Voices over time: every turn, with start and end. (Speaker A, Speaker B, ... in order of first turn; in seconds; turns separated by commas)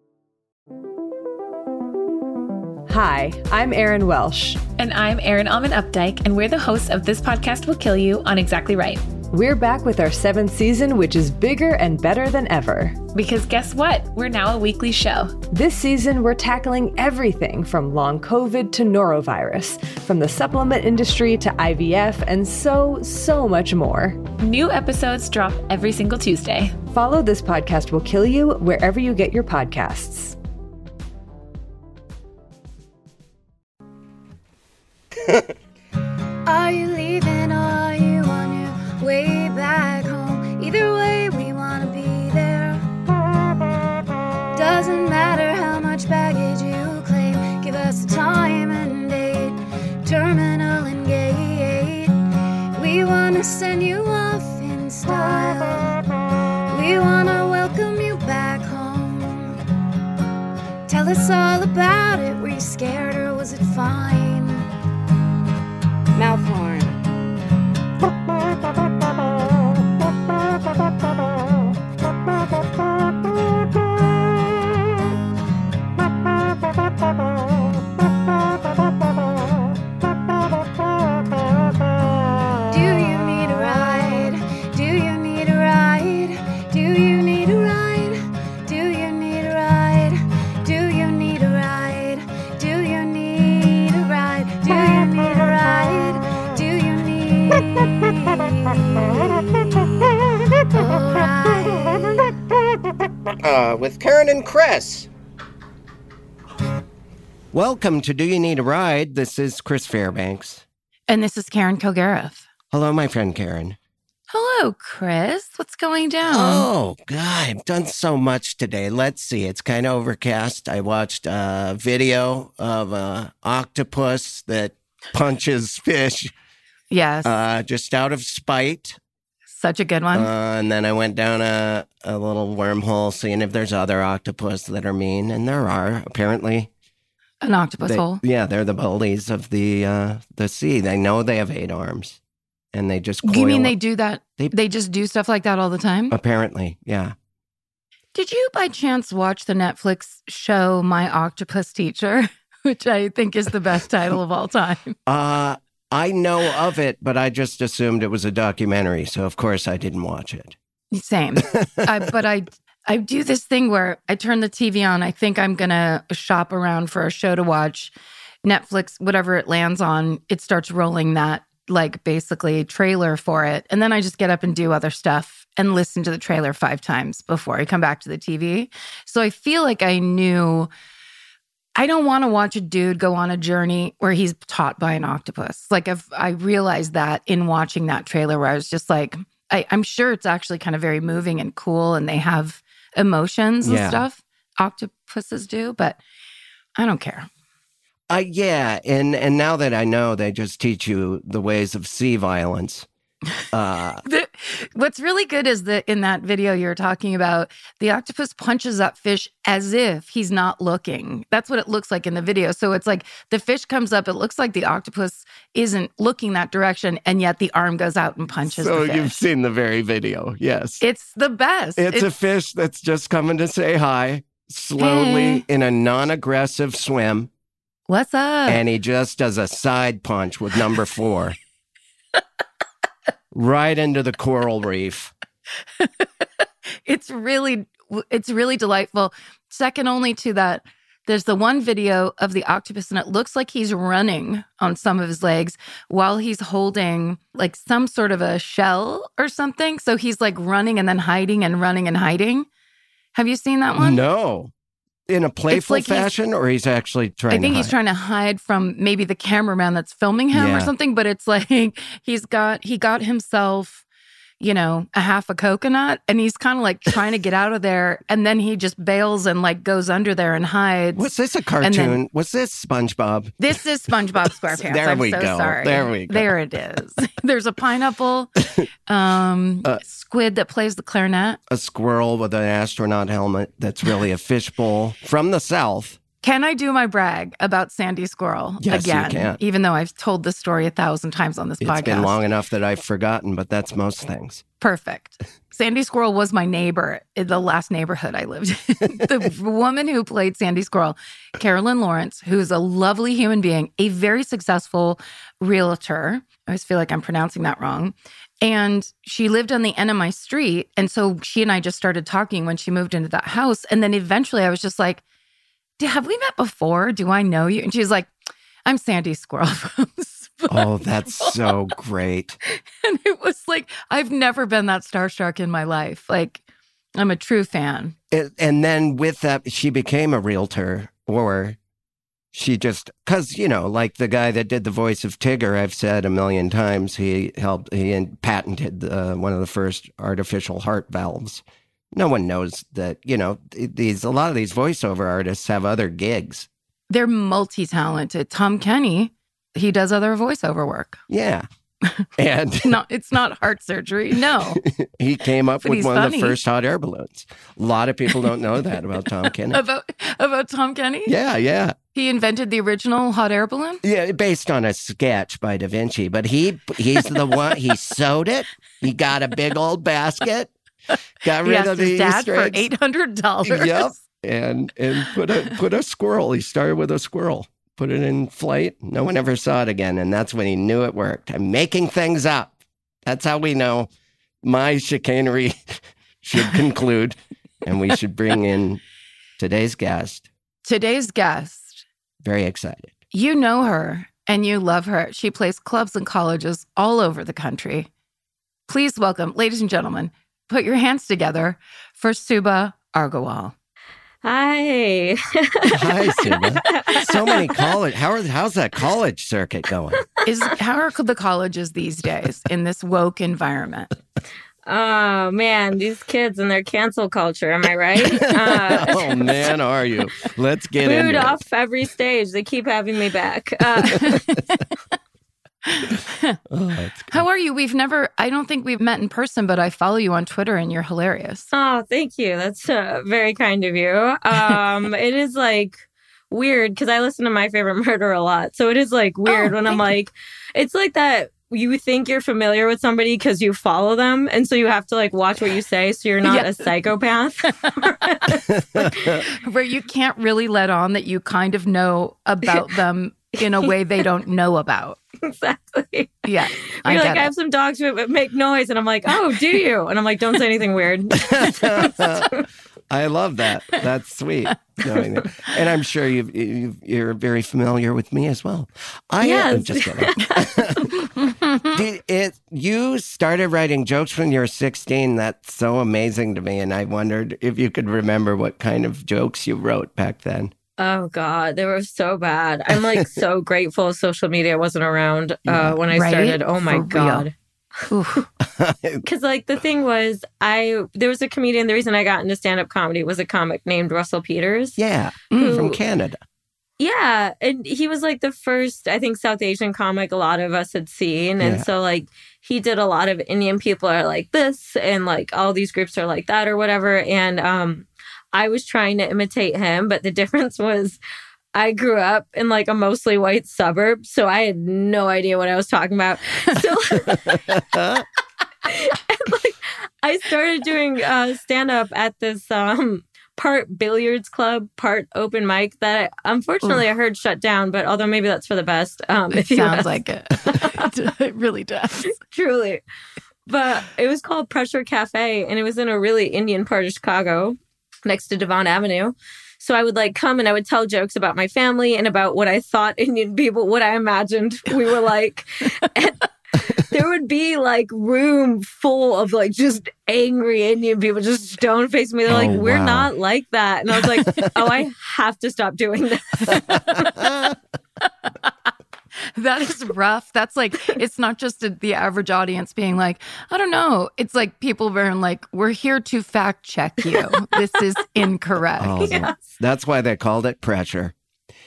Speaker A: 2.9-4.6, Speaker B: 4.8-9.1, Speaker A: 9.3-13.0, Speaker B: 13.1-15.4, Speaker A: 15.5-24.2, Speaker B: 24.3-26.8, Speaker A: 26.9-30.4, Speaker C: 36.5-42.8, Speaker C: 44.5-52.1, Speaker C: 52.8-56.0, Speaker C: 56.7-59.5, Speaker C: 60.9-64.6, Speaker C: 66.2-67.0, Speaker C: 82.7-99.6, Speaker D: 99.7-100.8, Speaker C: 100.8-102.2, Speaker D: 103.4-105.1, Speaker D: 107.5-110.6, Speaker E: 111.1-112.4, Speaker D: 112.7-113.8, Speaker E: 114.3-116.7, Speaker D: 116.2-126.3, Speaker E: 126.9-127.3, Speaker D: 127.2-129.0, Speaker E: 129.5-130.3, Speaker D: 130.1-136.7, Speaker E: 137.4-138.2, Speaker D: 137.8-142.2, Speaker D: 142.7-143.7, Speaker E: 143.2-146.1, Speaker D: 146.1-147.1, Speaker E: 148.1-154.9, Speaker D: 155.1-160.6, Speaker E: 160.9-180.7, Speaker D: 161.5-161.8, Speaker E: 181.8-196.0, Speaker D: 193.6-194.0, Speaker E: 196.8-197.3, Speaker D: 198.1-202.9, Speaker D: 203.5-204.0, Speaker E: 204.0-219.1, Speaker D: 218.5-220.8, Speaker E: 220.8-222.1, Speaker D: 221.8-227.3, Speaker E: 224.8-225.4, Speaker E: 227.9-228.6, Speaker D: 228.5-231.3, Speaker D: 233.3-235.1, Speaker E: 235.8-236.0, Speaker E: 236.8-252.5, Speaker E: 253.1-254.0, Speaker D: 253.8-254.5, Speaker D: 255.1-257.7, Speaker E: 255.5-256.1, Speaker E: 257.3-263.8, Speaker D: 260.3-260.7, Speaker E: 264.4-271.1, Speaker D: 270.9-273.4, Speaker E: 271.6-272.0, Speaker E: 273.4-281.4, Speaker D: 274.5-276.3, Speaker D: 281.5-286.0, Speaker E: 286.2-292.2, Speaker D: 288.6-289.4, Speaker D: 291.6-294.4, Speaker E: 294.6-315.0, Speaker E: 315.8-318.1, Speaker E: 318.6-321.4, Speaker D: 320.5-322.4, Speaker E: 322.5-326.4, Speaker E: 326.9-327.9, Speaker D: 328.1-331.6, Speaker D: 332.3-341.4, Speaker D: 341.9-346.5, Speaker E: 346.9-351.0, Speaker D: 351.1-351.4, Speaker D: 352.2-352.8, Speaker E: 352.6-354.6, Speaker D: 354.4-359.6, Speaker E: 355.6-356.4, Speaker E: 359.5-361.1, Speaker D: 361.1-361.8, Speaker E: 361.9-363.8, Speaker D: 363.8-370.5, Speaker D: 371.2-372.7, Speaker E: 371.4-374.0, Speaker D: 373.4-383.9, Speaker D: 384.4-388.8, Speaker D: 389.4-390.3, Speaker E: 390.6-391.8, Speaker D: 392.2-392.9, Speaker E: 393.1-397.9, Speaker E: 398.7-403.5, Speaker F: 404.2-407.7, Speaker D: 405.7-410.0, Speaker E: 410.2-413.9, Speaker F: 414.7-419.5, Speaker D: 418.2-421.4, Speaker F: 420.8-424.2, Speaker D: 423.8-424.0, Speaker E: 425.7-426.4, Speaker D: 426.5-427.2, Speaker E: 427.1-431.5, Speaker F: 431.5-449.2, Speaker E: 439.2-439.8, Speaker E: 446.2-446.7, Speaker E: 449.1-455.0, Speaker F: 455.2-462.5, Speaker E: 456.2-457.3, Speaker D: 461.2-470.9, Speaker F: 469.2-470.9, Speaker E: 471.1-471.7, Speaker D: 471.7-480.5, Speaker F: 480.8-487.3, Speaker D: 485.4-485.8, Speaker E: 485.9-487.2, Speaker E: 487.9-488.2, Speaker D: 488.4-489.0, Speaker F: 489.0-494.8, Speaker D: 494.8-496.2, Speaker E: 495.3-495.7, Speaker F: 495.3-495.8, Speaker F: 496.8-511.0, Speaker D: 501.4-501.7, Speaker F: 511.5-517.6, Speaker D: 517.0-518.0, Speaker F: 518.6-530.9, Speaker E: 529.3-532.1, Speaker F: 532.2-532.8, Speaker F: 533.5-556.8, Speaker D: 552.3-553.1, Speaker D: 556.5-557.5, Speaker E: 556.5-557.0, Speaker E: 559.3-569.2, Speaker F: 567.2-567.5, Speaker D: 568.8-571.1, Speaker F: 569.0-569.5